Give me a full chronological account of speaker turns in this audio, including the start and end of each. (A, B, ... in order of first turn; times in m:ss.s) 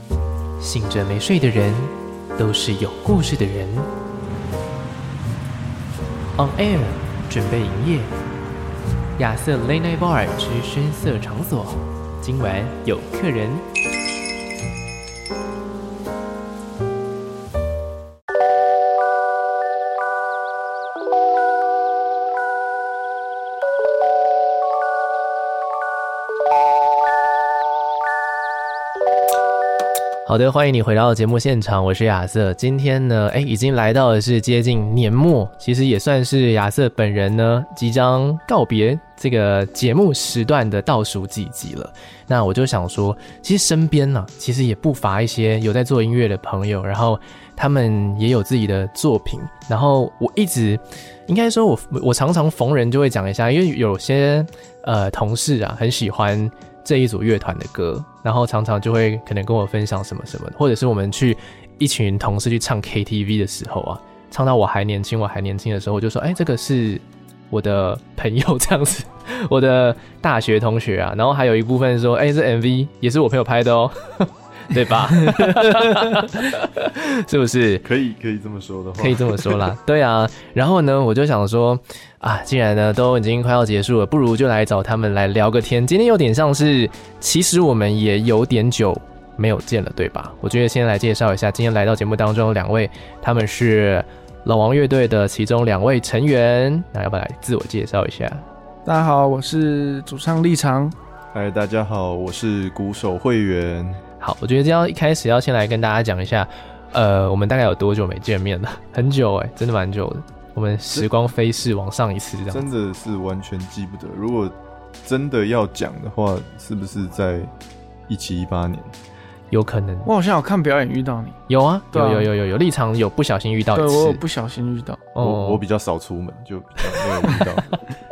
0:00.6-0:03.9 A
0:06.4-0:08.1 A
0:09.2-0:13.6 A
0:30.3-1:17.8 A
1:17.8-1:19.7 B
1:19.0-1:38.4 A
1:38.9-1:41.0 C
1:41.3-1:44.0 B
1:44.2-1:52.7 A
1:52.5-1:57.5 B
1:58.1-1:58.9 B
1:59.5-2:00.1 A
2:00.0-2:01.4 C
2:01.5-2:04.2 A
2:01.9-2:02.3 C
2:03.7-2:05.1 C
2:05.1-2:05.6 A
2:05.2-2:07.8 B
2:07.0-2:07.4 A